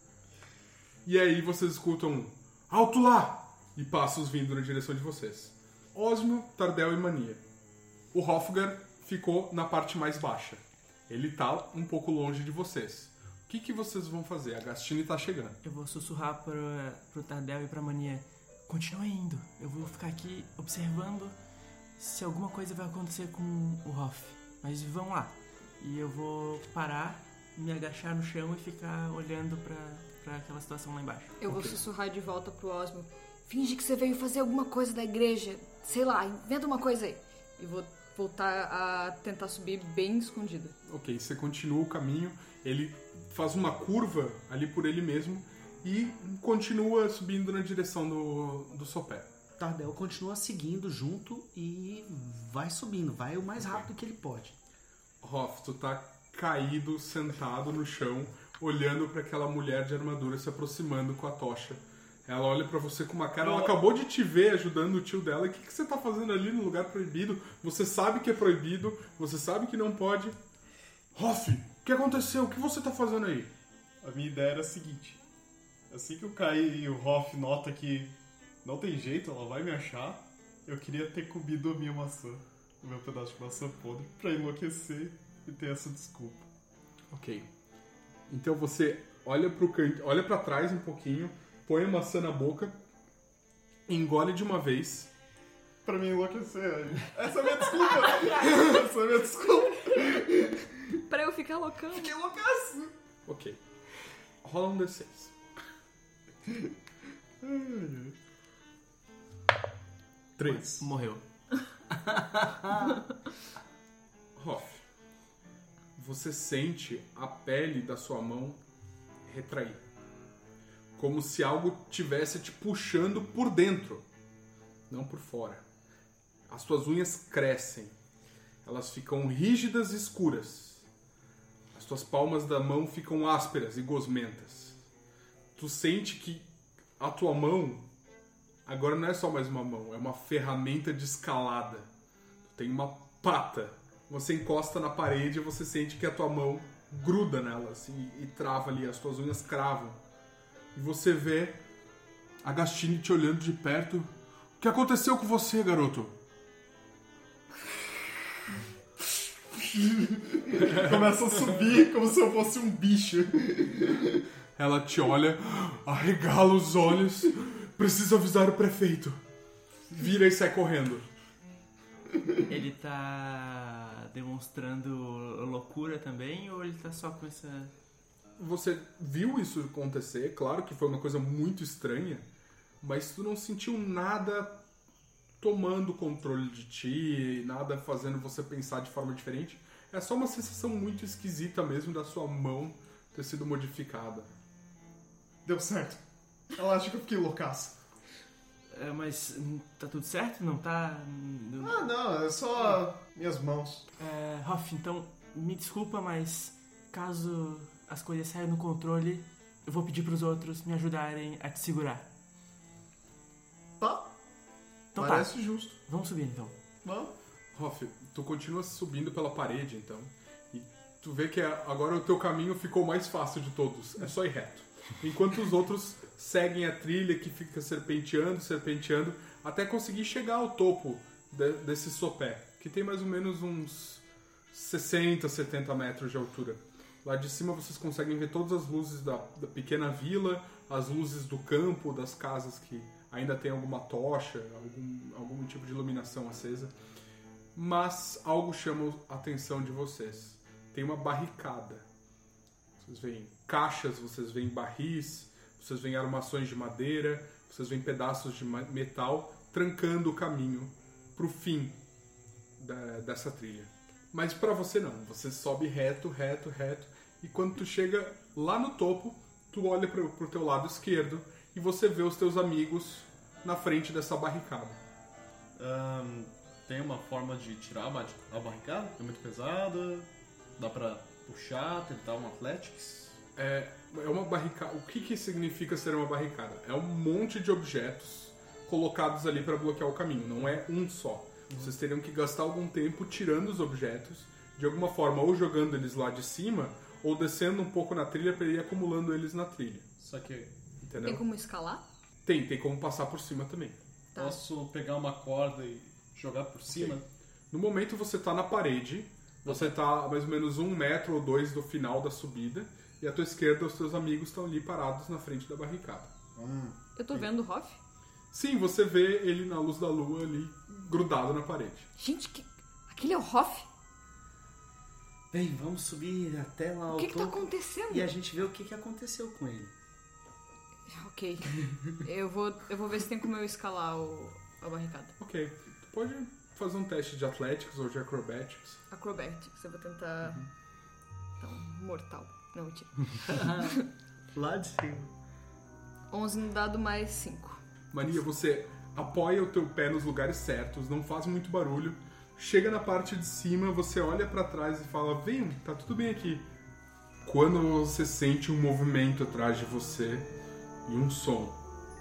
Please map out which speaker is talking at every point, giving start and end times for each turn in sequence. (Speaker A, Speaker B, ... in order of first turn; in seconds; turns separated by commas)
Speaker A: 1.0-7.4, Speaker A: 8.1-15.6, Speaker B: 15.6-21.3, Speaker B: 22.0-31.4, Speaker C: 31.4-40.8, Speaker A: 31.5-31.8, Speaker A: 40.9-49.3, Speaker D: 49.6-54.6, Speaker A: 55.2-70.4, Speaker E: 63.5-63.7, Speaker A: 71.1-73.5, Speaker E: 74.0-75.2, Speaker E: 75.9-86.5, Speaker A: 87.1-87.5, Speaker A: 88.3-92.8, Speaker A: 93.9-95.1, Speaker E: 95.8-101.0, Speaker C: 101.1-102.1, Speaker E: 101.9-102.9, Speaker A: 103.2-105.3, Speaker E: 107.4-108.1, Speaker E: 110.4-110.9, Speaker B: 110.4-111.2, Speaker D: 112.0-113.0, Speaker A: 114.3-114.8, Speaker A: 116.0-118.6, Speaker A: 119.2-119.8, Speaker A: 121.0-124.0, Speaker A: 124.9-125.6, Speaker A: 126.5-127.9, Speaker A: 128.6-130.9, Speaker A: 131.7-134.8, Speaker A: 135.6-137.8, Speaker A: 138.7-141.9, Speaker A: 142.4-150.0, Speaker A: 150.7-151.6, Speaker A: 152.4-156.1, Speaker E: 159.5-164.2, Speaker A: 160.5-161.6, Speaker A: 164.6-169.2, Speaker A: 169.9-171.1, Speaker B: 172.5-177.7, Speaker A: 178.4-182.2, Speaker A: 182.8-184.6, Speaker A: 185.4-194.3, Speaker E: 195.4-197.8, Speaker B: 198.7-201.9, Speaker E: 201.6-203.8, Speaker B: 204.0-212.1, Speaker E: 213.8-214.1, Speaker E: 214.9-215.8, Speaker B: 214.9-216.6, Speaker E: 216.8-217.1, Speaker A: 217.5-246.7, Speaker A: 247.5-251.8, Speaker A: 252.8-261.8, Speaker A: 262.6-274.8, Speaker E: 275.6-283.2, Speaker A: 283.3-299.9, Speaker E: 300.0-300.5, Speaker A: 300.8-301.2, Speaker C: 301.0-301.9, Speaker A: 302.2-303.8, Speaker C: 304.1-304.4, Speaker E: 304.1-307.1, Speaker A: 306.7-307.0, Speaker A: 307.5-316.1, Speaker E: 309.4-309.8, Speaker E: 316.3-317.3, Speaker C: 316.9-317.8, Speaker A: 318.3-321.9, Speaker C: 322.0-323.7, Speaker D: 325.3-329.7, Speaker C: 326.9-328.1, Speaker C: 330.9-335.1, Speaker A: 335.2-338.8, Speaker C: 338.9-340.5, Speaker C: 341.4-343.8, Speaker D: 343.3-343.8, Speaker D: 344.3-345.1, Speaker C: 346.1-347.6, Speaker A: 347.9-356.5, Speaker A: 357.2-360.3, Speaker A: 360.8-361.6